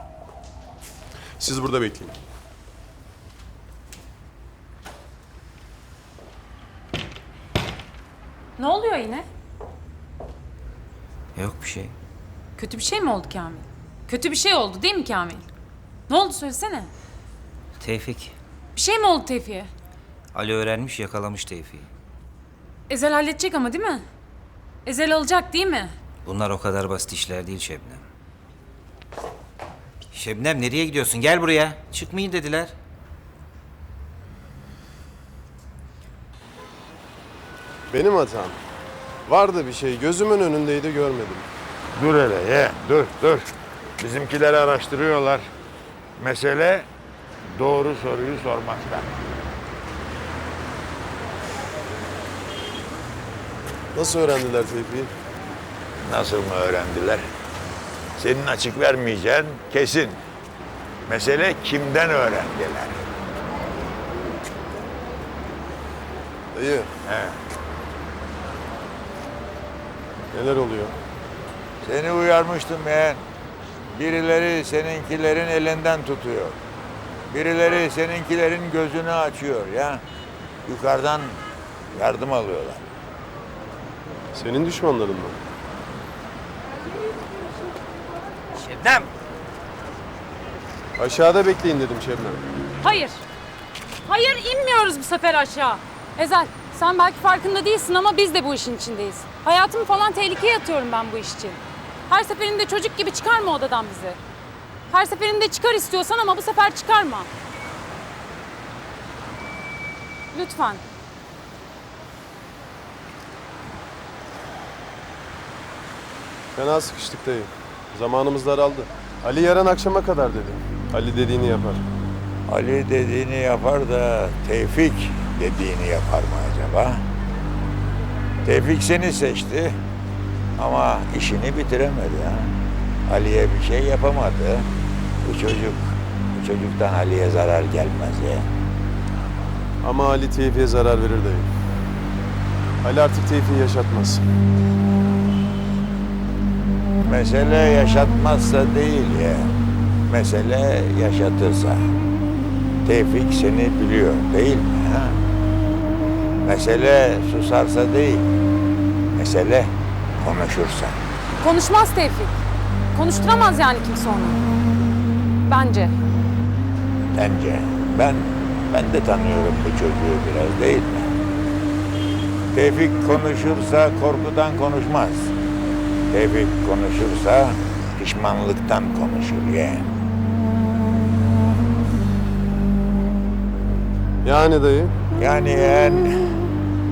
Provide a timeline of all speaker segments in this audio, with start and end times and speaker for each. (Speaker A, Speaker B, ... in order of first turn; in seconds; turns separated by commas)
Speaker A: 1.4-2.1, Speaker B: 8.6-9.3, Speaker C: 11.3-11.9, Speaker B: 12.6-15.4, Speaker B: 16.1-16.9, Speaker C: 17.8-18.3, Speaker B: 18.7-19.7, Speaker C: 20.3-21.9, Speaker B: 22.9-24.0, Speaker B: 24.8-25.9, Speaker C: 26.2-28.0, Speaker C: 30.1-32.7, Speaker A: 37.9-38.6, Speaker A: 39.3-41.5, Speaker D: 42.0-43.4, Speaker D: 44.0-45.4, Speaker D: 46.2-46.9, Speaker D: 47.5-49.2, Speaker A: 53.9-55.1, Speaker D: 56.0-57.2, Speaker D: 58.1-60.2, Speaker D: 61.1-63.0, Speaker A: 66.5-66.9, Speaker D: 67.0-67.4, Speaker A: 70.3-70.9, Speaker D: 71.8-73.2, Speaker D: 73.9-76.6, Speaker D: 77.3-80.0, Speaker D: 80.7-81.4, Speaker D: 81.9-82.8, Speaker A: 84.3-85.4, Speaker C: 88.6-89.0, Speaker A: 91.0-92.4, Speaker B: 92.8-93.2, Speaker B: 94.0-104.2, Speaker B: 104.9-107.3, Speaker B: 110.3-110.8, Speaker A: 116.5-121.8, Speaker D: 122.5-127.0, Speaker D: 128.4-129.7, Speaker D: 130.6-132.6, Speaker D: 133.1-134.7, Speaker D: 135.2-138.5, Speaker A: 139.8-141.5, Speaker A: 142.8-144.2, Speaker D: 147.0-149.5, Speaker D: 150.1-151.9, Speaker D: 152.8-155.2, Speaker D: 156.4-158.2, Speaker D: 159.1-161.0, Speaker B: 161.4-162.4, Speaker B: 162.9-164.4, Speaker B: 165.4-165.9, Speaker D: 167.1-171.1, Speaker D: 172.5-175.3, Speaker D: 176.1-180.0, Speaker A: 184.2-184.9, Speaker D: 185.1-186.1